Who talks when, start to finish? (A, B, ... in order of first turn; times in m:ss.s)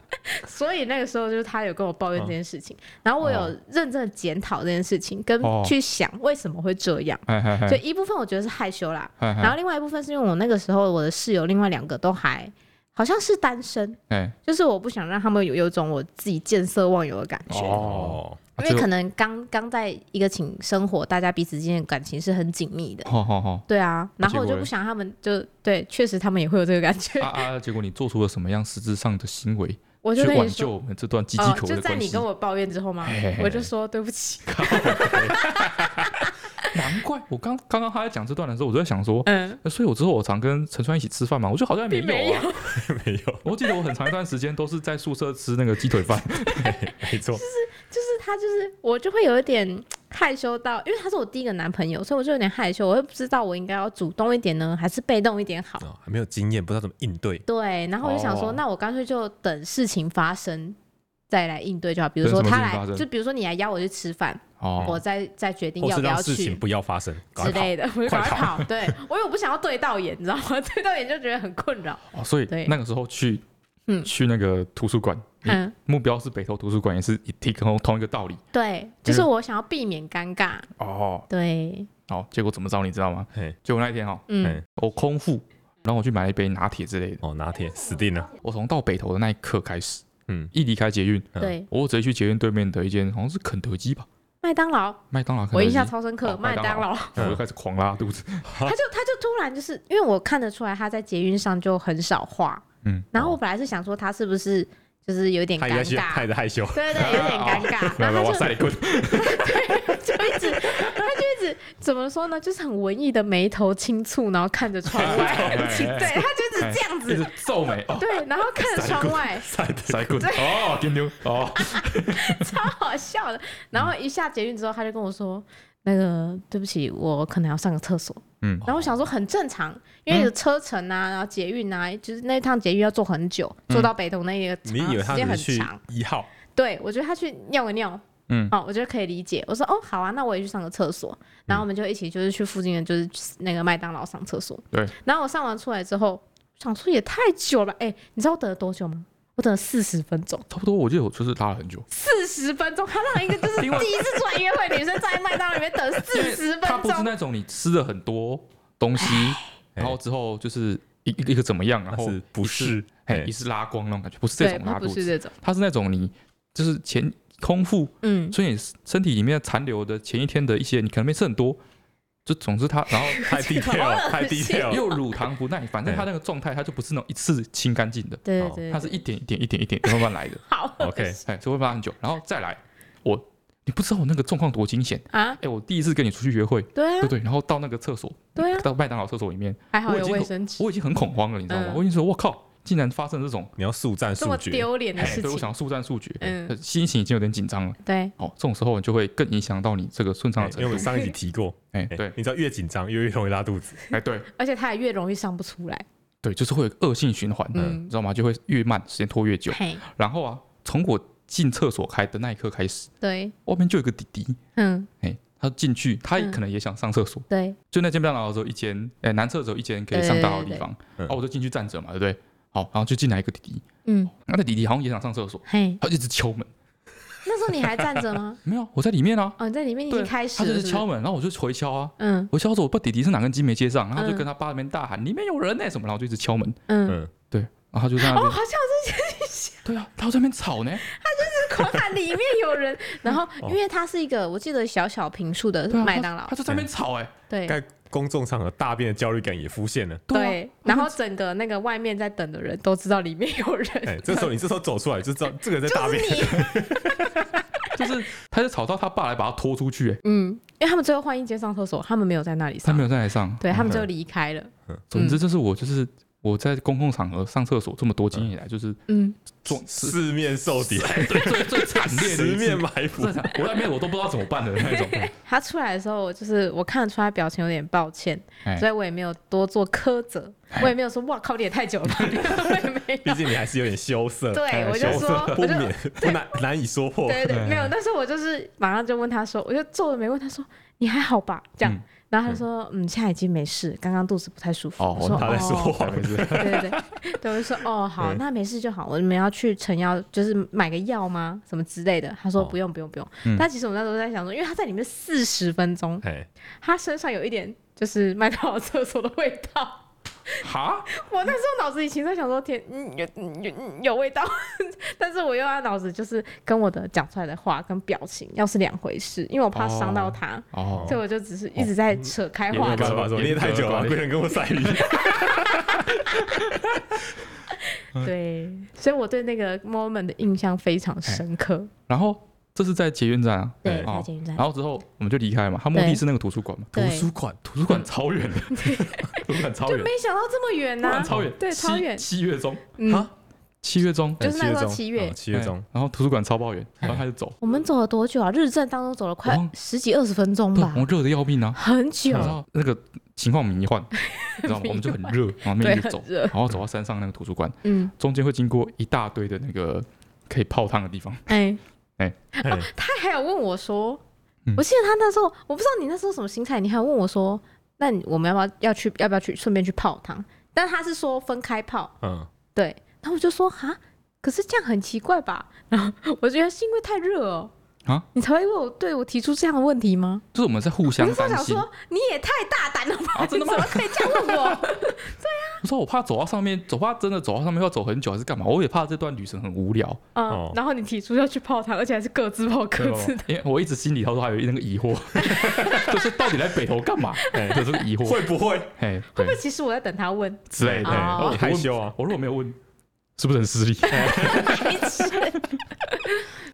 0:00.2-0:17.8 A
0:03.2-0:03.5 B
0:05.4-0:05.7 B
0:07.3-0:07.8 B
0:09.2-0:09.6 B
0:14.1-0:14.4 B
0:17.5-0:18.9 B
0:17.8-0:18.4 C
0:18.6-0:23.1 A
0:23.0-0:23.6 B
0:23.7-0:27.4 A
0:24.2-0:24.7 B
0:27.2-0:32.2 B
0:30.0-0:30.7 A
0:31.4-0:36.7 A
0:33.0-0:33.7 B
0:34.5-0:35.6 B
0:36.7-0:42.5 B
0:39.2-0:39.6 A
0:41.9-0:42.8 A
0:42.6-0:43.4 C
0:43.4-0:46.8 B
0:46.5-0:47.4 C
0:47.3-0:55.8 A
0:55.8-0:57.4 C
0:57.4-1:00.8 A
0:58.1-0:58.5 C
1:01.3-1:06.6 A
1:02.2-1:03.0 B
1:04.6-1:05.0 B
1:05.8-1:08.7 C
1:07.4-1:12.7 A
1:12.1-1:13.4 B
1:14.0-1:18.4 B
1:15.4-1:15.7 A
1:18.5-1:20.7 A
1:20.8-1:21.3 B
1:21.3-1:21.9 A
1:22.1-1:27.2 B
1:24.3-1:24.6 A
1:27.2-1:28.3 C
1:28.4-1:34.1 B
1:30.3-1:30.5 C
1:31.4-1:31.7 A
1:34.4-1:35.0 A
1:35.1-1:38.5 B
1:35.5-1:37.2 A
1:38.4-1:38.7 C
1:38.6-1:57.3 A
1:42.8-1:43.1 B
1:45.6-1:47.9 C
1:46.9-1:50.9 B
1:54.9-1:56.2 C
1:55.0-1:59.1 B
1:57.9-1:59.5 A
1:58.8-2:00.2 C
1:59.8-2:02.6 B
2:00.2-2:00.7 A
2:01.5-2:15.8 A
2:14.6-2:16.3 C
2:16.5-2:30.4 A
2:18.3-2:18.5 B
2:30.5-2:31.8 B
2:31.9-2:37.1 A
2:33.6-2:34.0 B
2:36.1-2:51.6 B
2:39.0-2:39.5 A
2:41.9-2:43.3 C
2:44.4-2:45.3 A
2:48.0-2:48.4 A
2:52.2-2:53.2 B
2:52.9-2:55.0 A
2:53.2-2:54.9 C
2:54.7-3:00.4 B
2:58.2-2:59.0 A
2:59.8-3:01.2 A
3:00.8-3:01.2 C
3:01.2-3:13.5 B
3:05.1-3:05.4 A
3:06.7-3:07.1 A
3:08.4-3:08.7 A
3:09.7-3:10.6 A
3:11.5-3:11.8 A
3:13.6-3:14.7 C
3:14.2-3:15.5 A
3:15.0-3:20.9 B
3:16.2-3:16.6 A
3:17.8-3:18.1 A
3:20.4-3:23.8 C
3:20.8-3:21.1 A
3:21.7-3:22.1 B
3:23.9-3:24.3 B
3:24.3-3:25.8 A
3:26.2-3:32.9 B
3:27.5-3:27.9 A
3:29.5-3:29.8 A
3:33.0-3:33.3 A
3:33.4-3:34.4 B
3:34.6-3:34.9 A
3:35.0-3:46.5 B
3:37.3-3:37.6 A
3:39.9-3:40.6 A
3:43.8-3:44.1 A
3:45.4-3:45.8 A
3:47.2-3:48.4 A
3:48.4-3:49.4 B
3:49.4-3:50.8 A
3:49.9-3:56.6 B
3:52.0-3:52.3 A
3:54.0-3:54.3 A
3:56.7-3:57.0 A
3:57.3-3:58.4 B
3:58.0-3:59.6 A
3:59.6-4:00.8 B
4:00.8-4:06.4 A
4:05.7-4:07.1 B
4:07.3-4:07.6 A
4:07.5-4:10.0 C
4:10.1-4:10.9 B
4:10.1-4:14.3 A
4:13.8-4:17.3 C
4:15.6-4:17.2 A
4:17.7-4:20.0 B
4:20.0-4:22.9 A
4:22.6-4:23.8 B
4:23.4-4:25.2 A
4:23.5-4:23.8 C
4:24.9-4:28.8 B
4:28.9-4:29.2 A
4:29.4-4:30.0 B
4:29.5-4:33.4 C
4:30.5-4:35.1 B
4:34.6-4:43.3 A
4:43.0-4:47.5 C
4:44.3-4:46.1 A
4:44.5-4:45.4 B
4:47.0-5:06.0 A
4:47.3-4:47.7 B
4:54.8-4:56.7 B
4:55.1-4:56.8 C
5:06.0-5:06.3 C
5:06.6-5:23.0 A
5:10.4-5:10.9 B
5:19.5-5:21.0 B
5:20.7-5:21.0 C
5:22.5-5:24.1 B
5:22.5-5:25.9 C
5:24.8-5:26.4 A
5:26.1-5:26.4 B
5:27.5-5:31.7 A
5:31.9-5:39.9 B
5:33.6-5:34.4 A
5:35.7-5:36.0 A
5:36.7-5:37.1 A
5:36.8-5:37.4 C
5:38.5-5:42.0 A
5:40.8-5:42.7 B
5:41.0-5:41.3 C
5:42.8-5:43.1 A
5:43.6-5:44.3 B
5:44.2-5:45.6 C
5:44.2-5:45.2 A
5:45.3-5:47.4 B
5:47.4-5:50.9 A
5:49.2-5:49.5 B
5:50.5-5:53.9 B
5:51.5-5:52.3 A
5:54.0-5:56.3 A
5:54.4-6:01.4 B
5:57.6-5:57.9 A
6:01.3-6:01.6 A
6:02.3-6:04.0 A
6:04.6-6:11.9 A
6:12.0-6:12.3 C
6:12.5-6:17.5 A
6:18.1-6:20.2 A
6:20.3-6:21.6 B
6:20.9-6:25.6 A
6:23.1-6:24.6 B
6:25.6-6:30.0 B
6:30.1-6:33.3 A
6:30.3-6:30.6 C
6:32.8-6:39.4 B
6:35.2-6:36.0 A
6:35.4-6:35.9 C
6:37.2-6:37.7 A
6:37.3-6:38.7 C
6:39.1-6:41.4 A
6:40.5-6:42.6 B
6:40.6-6:42.0 C
6:43.2-6:45.4 B
6:43.9-6:46.3 A
6:43.9-6:44.7 C